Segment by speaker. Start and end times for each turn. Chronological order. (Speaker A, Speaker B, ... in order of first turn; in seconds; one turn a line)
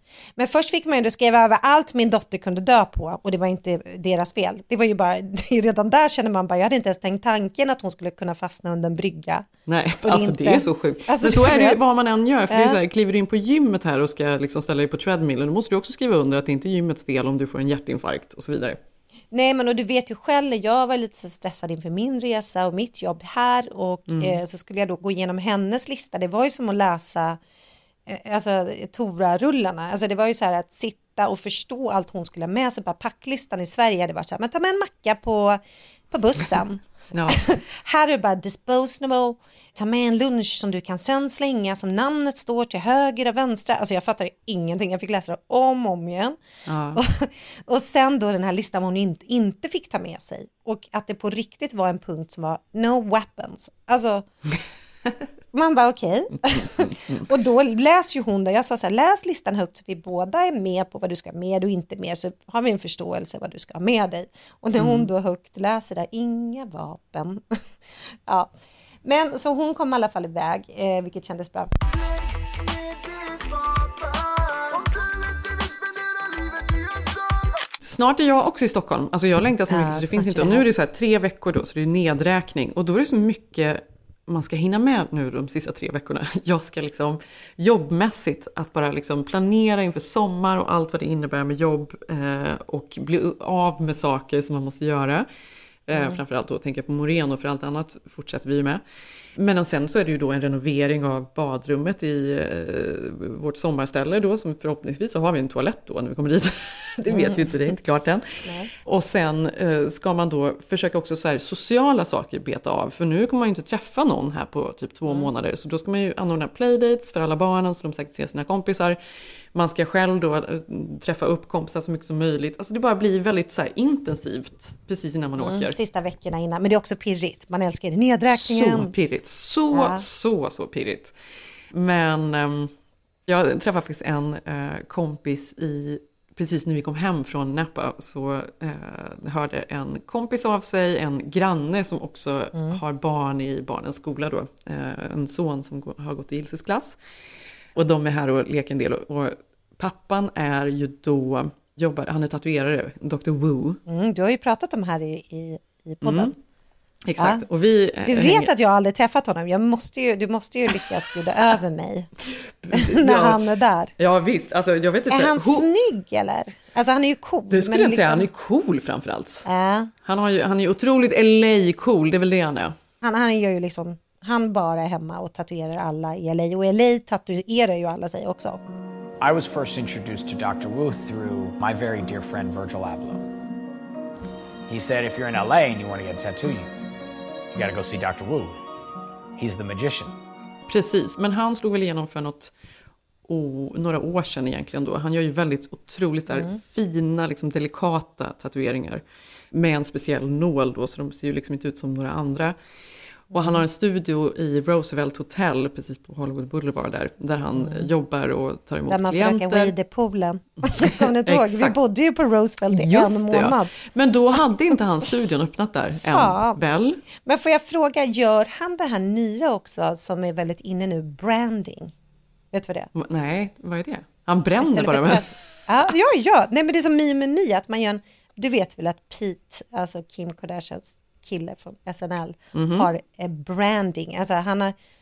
Speaker A: 0.4-9.5
Speaker B: 9.7-18.8
Speaker A: 10.0-11.8
Speaker A: 12.5-12.8
Speaker A: 19.3-27.4
Speaker B: 24.1-24.4
Speaker A: 28.1-46.4
Speaker B: 37.1-37.4
Speaker B: 46.6-47.0
Speaker A: 46.9-54.3
Speaker A: 55.5-67.4
Speaker B: 56.8-57.2
Speaker B: 64.8-65.1
Speaker A: 69.0-71.7
Speaker B: 77.8-95.3
Speaker A: 79.7-80.7
Speaker B: 95.9-98.8
Speaker B: 99.3-119.0
Speaker A: 107.1-107.5
Speaker A: 108.4-108.7
Speaker B: 119.5-125.8
Speaker A: 125.4-128.9
Speaker B: 128.3-131.1
Speaker A: 129.7-130.0
Speaker B: 131.7-132.7
Speaker B: 133.3-147.0
Speaker B: 147.8-153.8
Speaker A: 153.8-156.3
Speaker B: 156.0-156.3
Speaker B: 157.0-158.5
Speaker A: 157.2-157.4
Speaker A: 158.0-162.1
Speaker B: 162.6-163.4
Speaker A: 162.7-163.9
Speaker B: 164.0-165.7
Speaker A: 165.1-168.3
Speaker B: 167.5-169.4
Speaker A: 169.4-169.9
Speaker B: 170.0-172.7
Speaker A: 173.0-178.6
Speaker C: 179.2-183.2
Speaker C: 184.7-186.7
Speaker C: 187.5-188.6
Speaker C: 189.4-190.2
Speaker B: 190.7-192.5
Speaker B: 193.2-202.5
Speaker A: 196.3-196.6
Speaker B: 203.3-209.7
Speaker A: 203.3-203.6
Speaker A: 207.6-207.8
Speaker A: 208.9-213.8
Speaker B: 210.6-211.8
Speaker B: 212.7-217.0
Speaker A: 216.1-216.6
Speaker A: 217.2-221.9
Speaker A: 222.5-222.9
Speaker B: 222.9-225.2
Speaker A: 224.6-234.7
Speaker B: 232.5-232.9